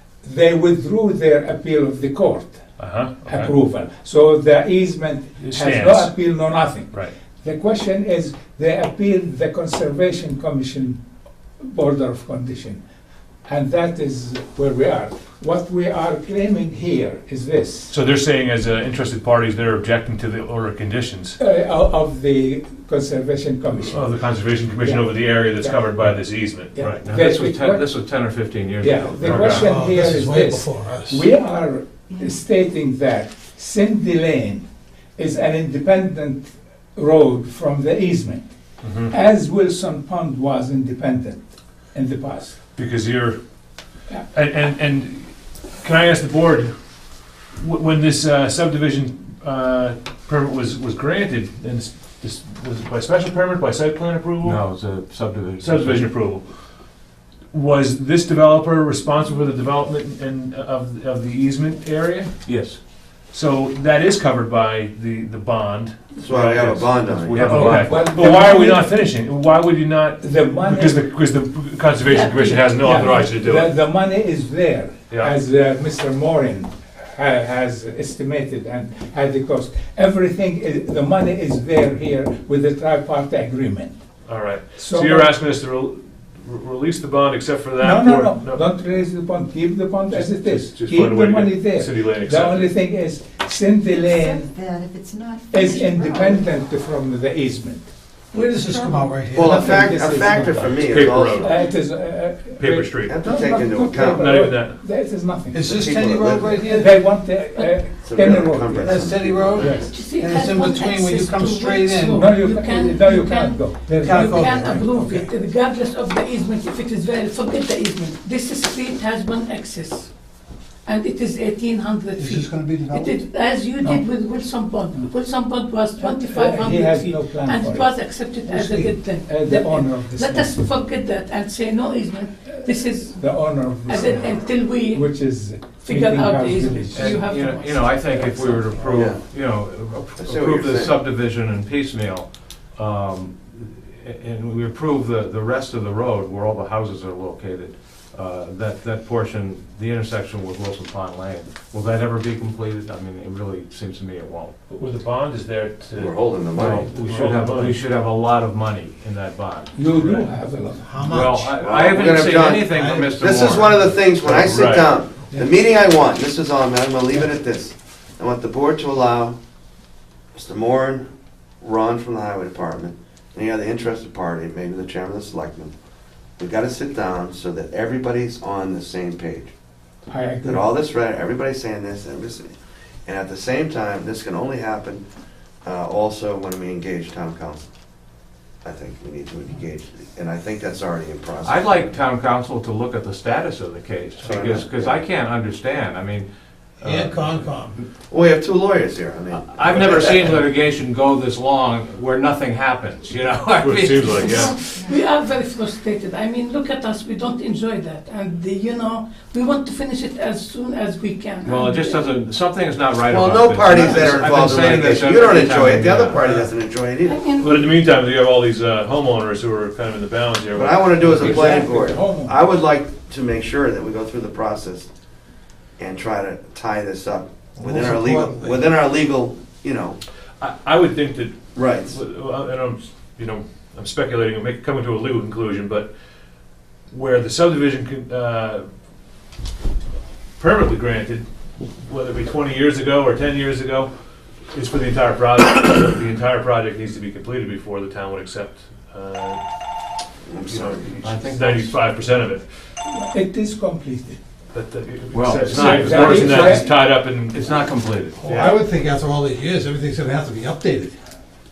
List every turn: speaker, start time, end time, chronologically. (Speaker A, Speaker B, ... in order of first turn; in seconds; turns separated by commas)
Speaker A: 0.2-2.6, Speaker B: 2.8-3.5, Speaker A: 3.2-11.0, Speaker B: 5.4-6.2, Speaker A: 11.6-12.8, Speaker A: 13.4-17.9, Speaker B: 17.9-21.4, Speaker A: 21.4-24.0, Speaker B: 23.8-27.0, Speaker A: 24.8-26.1, Speaker A: 26.7-27.9, Speaker C: 26.8-29.6, Speaker A: 28.8-34.6, Speaker B: 29.2-29.7, Speaker D: 29.5-31.3, Speaker A: 35.2-38.4, Speaker B: 38.8-39.1, Speaker A: 39.1-42.5, Speaker B: 42.8-43.4, Speaker B: 44.3-46.7, Speaker B: 47.5-54.6, Speaker C: 54.4-56.1, Speaker B: 55.6-56.5, Speaker B: 57.5-62.3, Speaker C: 62.4-62.8, Speaker B: 63.3-73.7, Speaker E: 66.2-67.7, Speaker C: 67.0-68.1, Speaker A: 67.5-68.8, Speaker A: 70.2-71.0, Speaker F: 72.1-72.7, Speaker A: 72.8-83.9, Speaker B: 84.2-88.6, Speaker A: 84.8-85.3, Speaker A: 87.8-94.5, Speaker B: 90.1-92.7, Speaker G: 94.0-96.4, Speaker A: 95.5-97.9, Speaker D: 98.3-99.7, Speaker G: 98.3-99.3, Speaker E: 99.3-101.5, Speaker A: 99.3-100.8, Speaker B: 100.8-101.6, Speaker A: 101.4-105.6, Speaker B: 102.5-103.1, Speaker E: 103.1-104.2, Speaker B: 104.1-104.8, Speaker D: 105.5-107.0, Speaker E: 105.7-106.6, Speaker A: 106.7-109.0, Speaker F: 107.5-107.8, Speaker E: 108.0-110.0, Speaker D: 108.8-112.3, Speaker A: 109.6-109.9, Speaker F: 109.7-120.1, Speaker A: 112.1-114.5, Speaker D: 114.0-115.3, Speaker F: 120.8-138.7, Speaker D: 122.2-123.2, Speaker A: 126.0-127.9, Speaker A: 128.4-130.8, Speaker A: 132.6-137.2, Speaker C: 136.9-154.5, Speaker E: 138.8-139.2, Speaker E: 140.2-141.0, Speaker B: 154.7-157.8, Speaker E: 155.9-157.0, Speaker C: 156.5-160.3, Speaker A: 159.7-160.9, Speaker D: 160.8-161.6, Speaker C: 161.0-164.0, Speaker E: 161.6-169.4, Speaker D: 162.7-163.1, Speaker B: 164.2-164.9, Speaker D: 165.3-165.5, Speaker E: 170.3-171.1, Speaker E: 171.6-175.7, Speaker E: 176.4-179.5, Speaker A: 180.1-180.6, Speaker E: 180.4-182.5, Speaker E: 183.1-185.0, Speaker E: 185.6-187.7, Speaker E: 188.6-192.0, Speaker C: 191.4-196.3, Speaker E: 194.2-195.0, Speaker C: 196.8-197.8, Speaker D: 196.8-197.8, Speaker E: 198.1-200.5, Speaker C: 199.3-204.6, Speaker B: 203.6-204.7, Speaker G: 204.4-205.0, Speaker F: 204.8-212.0, Speaker C: 211.4-216.2, Speaker E: 213.1-217.2, Speaker F: 217.1-217.7, Speaker B: 217.4-221.4, Speaker E: 220.5-224.9, Speaker A: 221.0-222.4, Speaker E: 225.8-230.0, Speaker D: 227.6-228.7, Speaker B: 230.4-235.9, Speaker E: 231.5-232.0, Speaker B: 236.9-238.7, Speaker B: 240.4-241.3, Speaker B: 241.8-243.9, Speaker B: 244.5-249.4, Speaker E: 250.3-250.9, Speaker B: 250.5-252.4, Speaker C: 251.0-251.7, Speaker A: 252.9-254.2, Speaker B: 254.5-257.5, Speaker C: 255.1-256.7, Speaker A: 255.5-256.7, Speaker C: 257.3-258.5, Speaker D: 258.2-260.9